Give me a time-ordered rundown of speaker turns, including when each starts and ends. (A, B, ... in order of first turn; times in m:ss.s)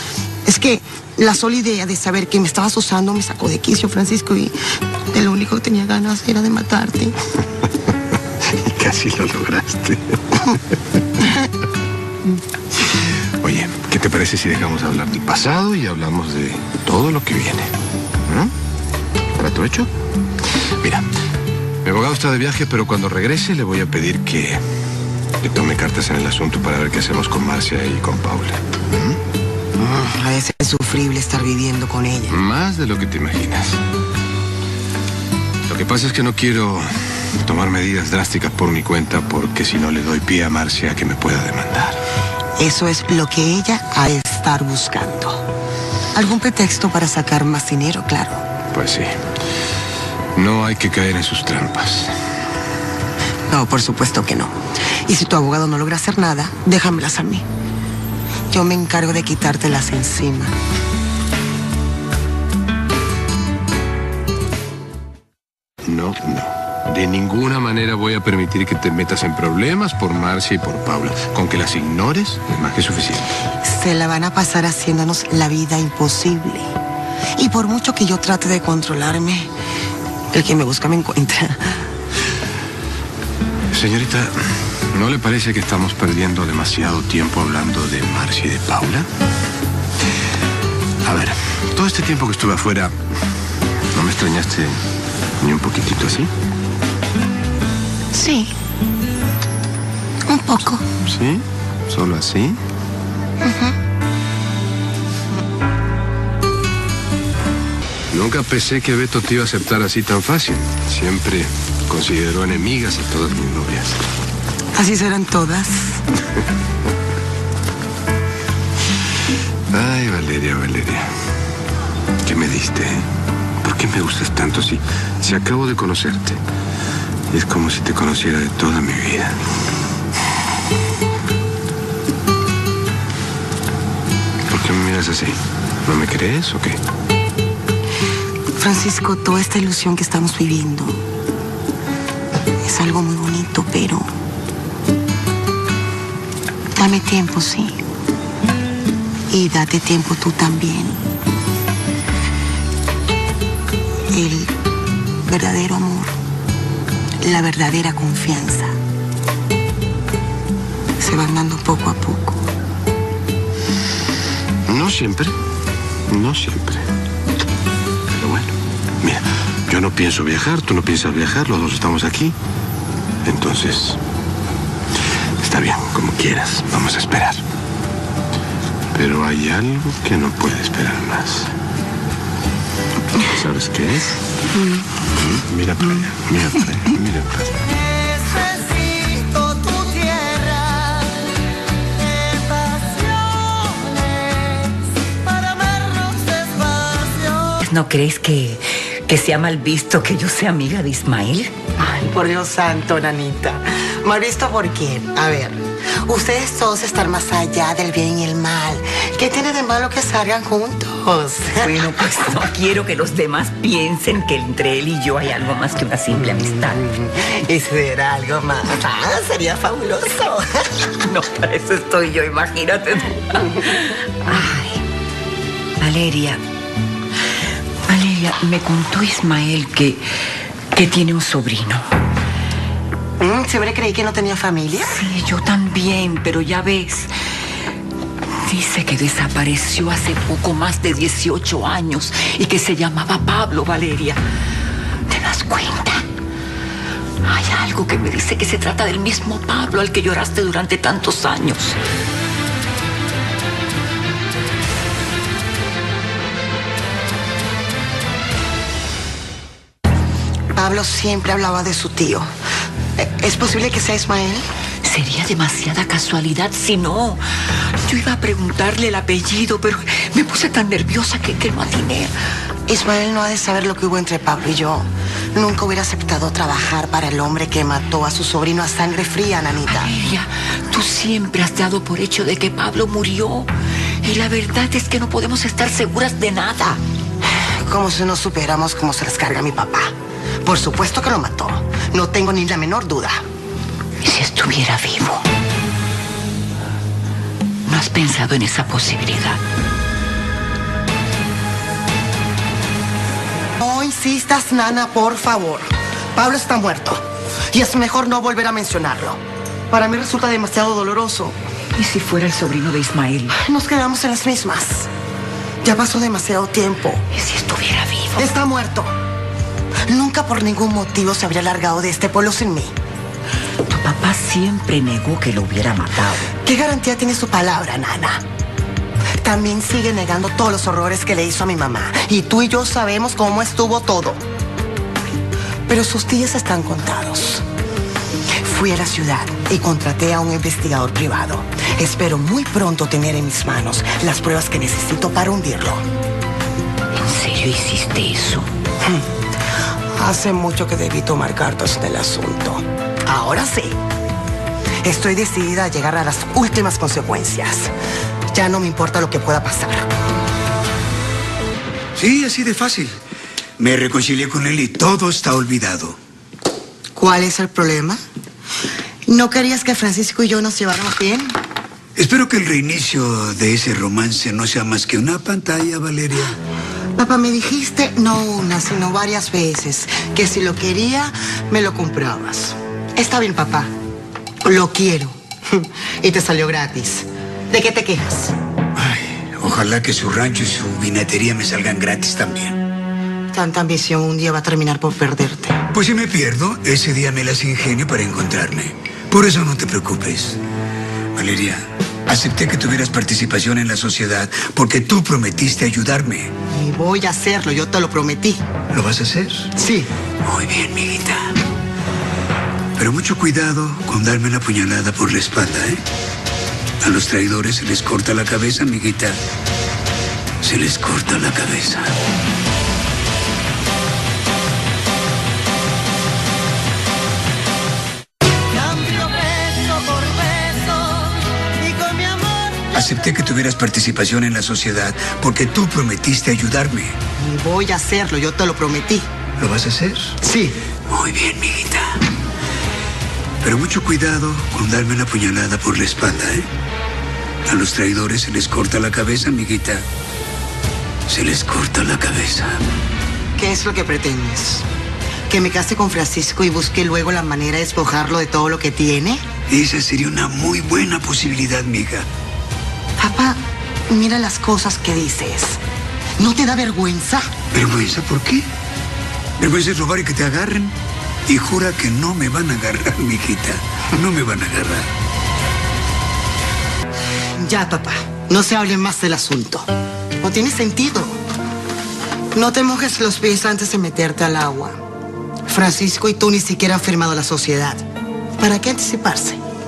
0:00.4-0:04.6 A
0:05.1-0:07.2 A
0:08.4-0:10.8 B
0:13.4-0:17.7 B
0:18.3-0:18.5 B
0:19.4-0:19.9 B
0:20.8-0:21.1 B
0:21.8-0:24.6 B
0:25.4-0:29.2 B
0:29.8-0:32.4 A
0:32.3-0:33.8 B
0:35.7-0:42.0 B
0:42.6-0:45.4 A
0:46.1-0:48.4 A
0:48.7-0:49.1 B
0:50.4-0:52.1 B
0:53.5-0:57.5 A
0:58.5-1:00.5 A
1:05.8-1:13.3 B
1:13.6-1:16.7 A
1:17.4-1:19.5 A
1:20.3-1:21.7 A
1:23.7-1:29.1 B
1:31.0-1:33.0 B
1:33.9-1:34.8 B
1:35.4-1:36.3 B
1:38.1-1:38.5 A
1:40.2-1:40.8 A
1:41.0-1:42.6 B
1:43.4-1:43.8 A
1:48.1-1:54.0 B
1:54.7-1:56.0 A
1:59.7-2:01.1 B
2:02.2-2:03.1 B
2:03.6-2:06.4 B
2:07.3-2:09.4 B
2:14.5-2:16.8 B
2:18.6-2:21.0 A
2:22.6-2:24.1 A
2:26.8-2:27.8 A
2:29.3-2:31.0 A
2:34.1-2:34.5 A
2:35.2-2:36.2 A
2:37.2-2:38.8 A
2:41.0-2:42.4 A
2:44.7-2:45.4 B
2:46.1-2:46.9 B
2:48.1-2:52.4 B
2:53.2-2:54.0 B
2:55.4-2:57.4 B
2:58.9-3:01.5 B
3:03.2-3:04.2 B
3:04.5-3:04.9 A
3:05.1-3:07.7 B
3:08.4-3:10.5 A
3:15.4-3:17.1 A
3:17.6-3:21.5 C
3:21.8-3:32.4 A
3:31.6-3:36.8 C
3:36.3-3:40.9 A
3:41.0-3:44.8 C
3:45.8-3:46.4 C
3:47.9-3:50.0 C
3:50.7-3:51.9 C
3:53.2-3:55.0 A
3:54.8-3:57.1 C
3:58.4-4:04.2 C
4:05.1-4:06.0 C
4:07.2-4:11.8 C
4:20.5-4:22.3 A
4:23.0-4:24.5 A
4:24.8-4:27.2 C
4:27.9-4:32.1 C
4:32.7-4:39.9 A
4:39.7-4:43.5 C
4:44.0-4:46.8 C
4:47.4-4:53.2 A
4:54.0-4:55.2 C
4:57.7-4:59.4 C
5:03.6-5:11.4 A
5:11.8-5:13.4 C
5:13.3-5:14.9 A
5:15.6-5:17.0 A
5:17.1-5:18.2 C
5:18.2-5:18.9 A
5:19.9-5:22.7 A
5:23.7-5:26.3 C
5:26.4-5:28.2 A
5:29.2-5:34.2 A
5:35.7-5:37.4 A
5:38.4-5:45.8 A
5:47.0-5:48.5 C
5:49.9-5:53.8 A
5:54.8-5:57.7 A
5:58.3-5:59.9 A
6:02.0-6:03.0 D
6:03.6-6:06.0 D
6:07.0-6:08.0 A
6:09.1-6:11.3 A
6:12.0-6:16.4 D
6:17.0-6:23.7 A
6:24.4-6:28.4 A
6:28.8-6:32.6 D
6:33.3-6:35.6 A
6:35.7-6:40.4 D
6:41.2-6:46.3 D
6:46.5-6:48.4 A
6:48.7-6:49.5 D
6:49.6-6:49.9 A
6:50.2-6:51.3 D
6:52.8-6:55.8 D
6:56.8-6:59.2 D
7:00.4-7:02.0 D
7:08.5-7:12.6 A
7:12.7-7:17.0 D
7:17.2-7:19.1 A
7:19.4-7:20.2 D
7:20.2-7:20.6 A
7:20.9-7:22.0 D
7:23.4-7:26.5 D
7:27.5-7:29.8 D
7:31.1-7:32.6 D
7:33.4-7:34.6 A
7:35.3-7:39.2 A
7:39.5-7:42.1 D
7:43.0-7:45.6 A
7:46.2-7:47.3 A
7:47.5-7:48.5 D
7:49.4-7:50.8 D
7:51.3-7:54.9 D
7:57.4-7:59.7 A
8:00.2-8:01.2 A
8:02.3-8:04.8 A
8:05.5-8:07.8 A
8:08.4-8:09.4 A